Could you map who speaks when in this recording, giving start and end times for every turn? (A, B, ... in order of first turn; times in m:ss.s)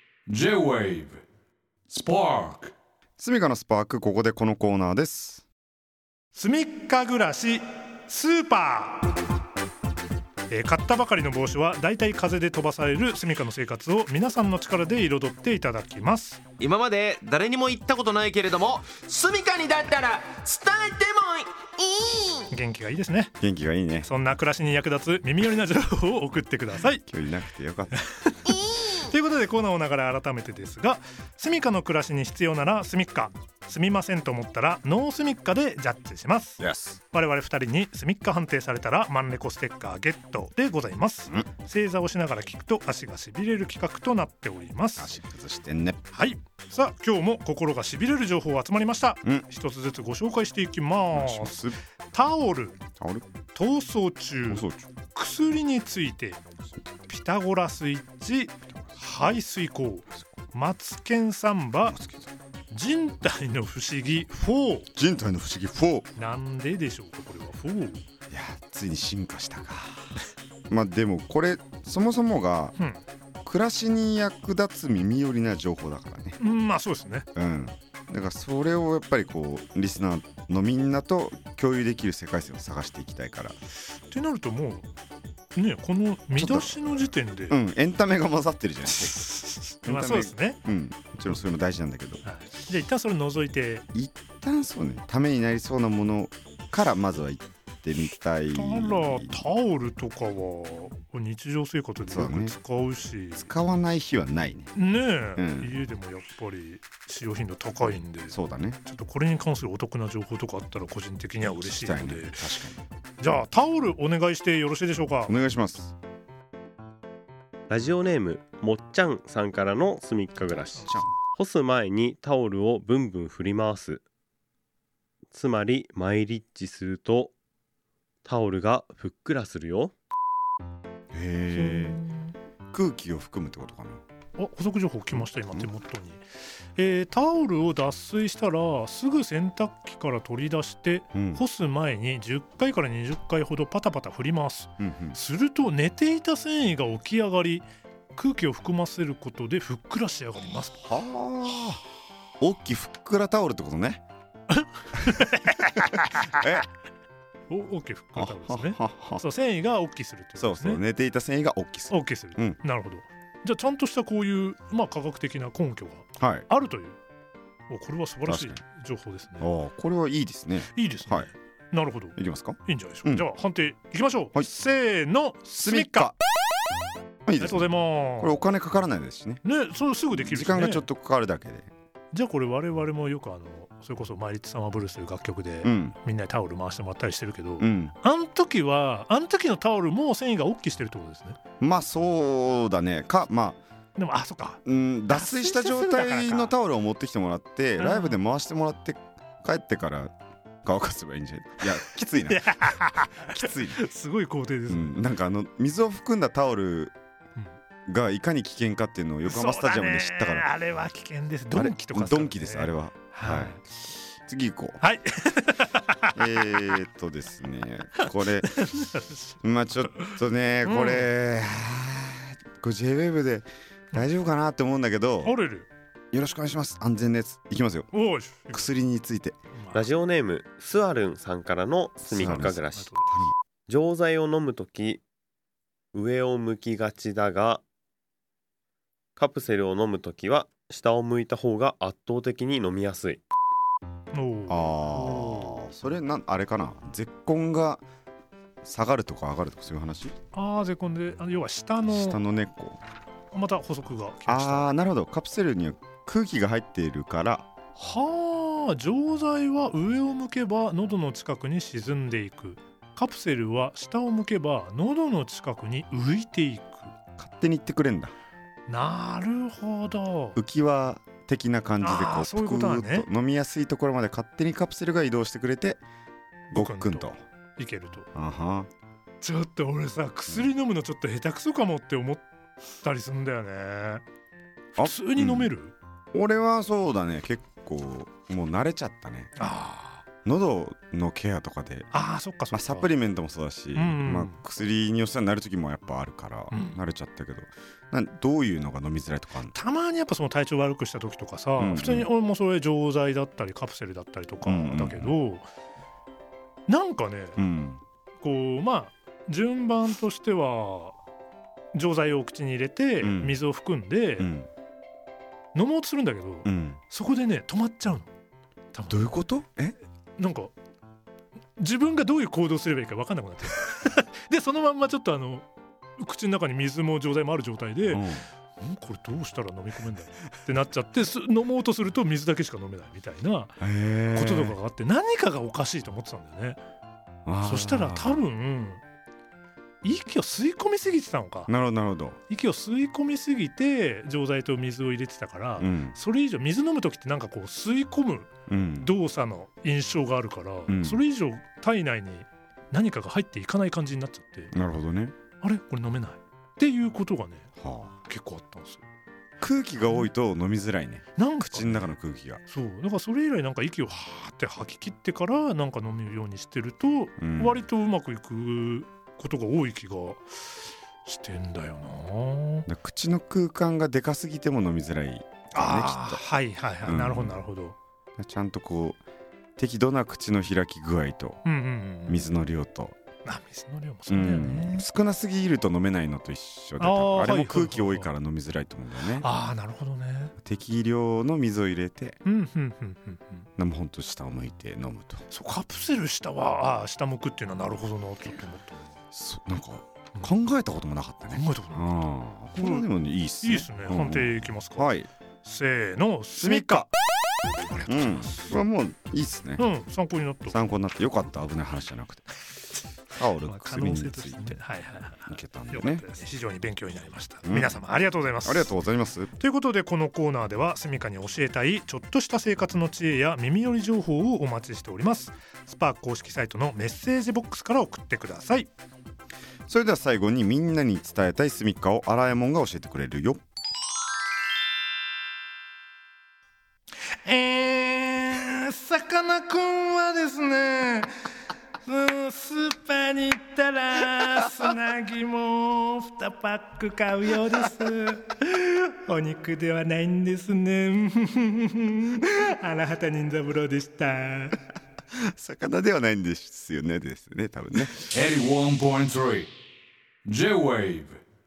0:00.3-0:01.2 A
0:01.9-0:02.7 A
0:03.2-0:05.5 B
0:06.3-0:09.1 C
0:10.5-0:16.4 C
0:16.6-0:21.5 D
0:22.4-0:23.3 C
0:23.4-0:24.1 B
0:24.0-0:27.0 C
0:27.0-0:28.0 B
0:28.0-0:45.1 C
0:36.6-0:37.0 B
0:45.0-0:46.0 B
0:46.1-0:52.8 C
0:51.1-0:51.8 B
0:53.0-0:53.2 B
0:53.5-0:56.4 C
0:54.5-0:54.9 B
0:57.0-1:02.0 C
1:01.8-1:02.3 B
1:02.7-1:04.9 C
1:04.9-1:06.1 B
1:06.2-1:08.0 C
1:08.3-1:10.2 B
1:10.7-1:12.7 B
1:12.8-1:13.0 C
1:13.4-1:16.4 B
1:16.4-1:17.3 C
1:17.4-1:23.6 B
1:23.9-1:24.9 C
1:25.5-1:27.6 C
1:26.3-1:26.8 B
1:27.5-1:29.3 B
1:28.8-1:30.6 C
1:29.8-1:32.2 B
1:32.2-1:33.8 C
1:33.9-1:39.4 B
1:38.5-1:43.5 C
1:42.0-1:42.6 B
1:43.4-1:44.7 B
1:44.8-1:52.6 C
1:45.4-1:45.7 B
1:48.3-1:48.8 B
1:51.5-1:52.8 B
1:53.2-1:55.4 C
1:55.3-1:55.9 B
1:57.7-2:04.0 E
2:00.5-2:01.1 B
2:05.3-2:07.3 E
2:08.2-2:09.9 E
2:11.1-2:12.0 B
2:11.5-2:12.3 C
2:12.7-2:14.0 B
2:14.4-2:30.9 C
2:15.1-2:15.7 B
2:21.1-2:21.4 B
2:24.8-2:25.2 B
2:30.8-2:31.8 B
2:32.4-2:34.0 B
2:34.5-2:36.6 C
2:36.2-2:36.6 B
2:37.5-2:40.8 C
2:38.2-2:39.2 B
2:40.4-2:42.6 B
2:41.9-2:47.0 C
2:46.2-2:46.5 B
2:47.7-2:49.5 C
2:48.2-2:48.6 B
2:49.4-2:51.3 B
2:50.7-2:56.1 C
2:52.2-2:53.3 B
2:55.6-2:56.2 B
2:57.2-2:59.4 B
2:57.4-2:58.4 C
2:59.4-3:00.9 C
3:00.1-3:01.7 B
3:02.1-3:11.4 C
3:05.6-3:06.0 B
3:07.6-3:07.9 B
3:11.6-3:13.6 B
3:14.0-3:16.5 C
3:14.6-3:23.8 B
3:17.8-3:18.2 C
3:22.3-3:25.0 C
3:24.7-3:26.9 B
3:27.9-3:30.5 B
3:29.2-3:33.6 C
3:31.5-3:33.6 B
3:34.3-3:34.8 B
3:34.8-3:36.8 C
3:36.2-3:38.6 B
3:38.0-3:39.3 C
3:39.4-3:45.4 B
3:39.9-3:41.1 C
3:45.2-3:45.7 C
3:46.1-3:47.9 B
3:47.9-3:48.7 C
3:48.4-3:49.4 B
3:49.5-3:49.9 C
3:49.7-3:52.9 E
3:52.0-3:53.3 B
3:52.7-3:53.1 C
3:53.7-3:55.0 E
3:55.9-3:57.6 E
3:59.2-4:03.2 E
4:04.1-4:05.7 C
4:04.5-4:07.8 B
4:08.6-4:10.1 B
4:10.3-4:12.2 C
4:11.9-4:12.8 B
4:13.3-4:14.7 C
4:14.3-4:17.5 B
4:17.7-4:26.9 C
4:27.2-4:28.1 B
4:28.7-4:30.4 C
4:30.3-4:35.8 B
4:31.8-4:33.1 C
4:36.5-4:38.1 C
4:36.5-4:37.2 B
4:38.1-4:38.7 B
4:39.2-4:42.2 C
4:42.8-4:44.0 C
4:44.8-4:45.7 C
4:44.8-4:45.5 B
4:46.1-4:49.3 B
4:49.4-4:50.1 C
4:50.2-4:51.9 B
4:51.9-4:52.9 C
4:52.5-4:59.5 B
4:53.7-4:54.4 C
4:56.5-4:56.8 C
4:59.5-5:05.5 C
5:01.6-5:02.1 B
5:04.4-5:05.1 B
5:06.7-5:07.4 C
5:07.4-5:07.8 B
5:08.2-5:11.0 C
5:11.7-5:14.3 C
5:13.0-5:13.4 B
5:14.2-5:14.5 B
5:15.5-5:18.1 C
5:16.4-5:16.8 B
5:18.7-5:19.2 C
5:18.9-5:19.8 B
5:20.2-5:20.5 C
5:21.6-5:33.6 C
5:27.9-5:28.2 B
5:33.6-5:34.6 B
5:34.1-5:36.6 C
5:37.2-5:38.2 B
5:37.4-5:38.8 C
5:39.8-5:41.5 C
5:41.5-5:42.2 B
5:42.3-5:54.5 C
5:45.6-5:46.0 B
5:48.5-5:48.9 B
5:50.7-5:51.0 B
5:54.5-5:55.2 B
5:55.3-5:57.5 C
5:57.6-5:57.9 B
5:58.0-5:58.8 C
5:59.4-6:02.4 B
5:59.8-6:00.1 C
6:01.2-6:01.9 C
6:02.5-6:12.7 C
6:07.2-6:07.6 B
6:12.7-6:16.2 B
6:15.5-6:17.7 C
6:16.8-6:17.4 B
6:18.2-6:19.0 B
6:19.6-6:21.4 B
6:21.4-6:22.3 C
6:22.1-6:23.0 B
6:23.2-6:24.8 C
6:24.1-6:29.3 B
6:26.8-6:28.1 C
6:29.0-6:30.3 C
6:30.4-6:32.2 B
6:32.2-6:33.5 C
6:33.6-6:35.2 B
6:35.3-6:39.0 C
6:39.1-6:45.1 B
6:41.3-6:42.0 C
6:42.5-6:42.9 C
6:43.4-6:44.9 C
6:45.4-6:46.9 C
6:46.4-6:46.9 B
6:47.6-6:48.6 C
6:47.9-6:49.6 B
6:49.6-6:50.6 C
6:50.5-6:52.2 B
6:53.2-6:54.6 B
6:53.2-6:58.7 C
6:55.3-6:56.0 B
6:57.4-6:57.8 B
6:58.4-6:59.3 B
6:59.4-7:08.7 C
7:09.7-7:13.4 B
7:17.1-7:21.1 C
7:21.8-7:34.6 C
7:35.3-7:38.1 B
7:38.0-7:39.5 A
7:40.2-7:41.2 A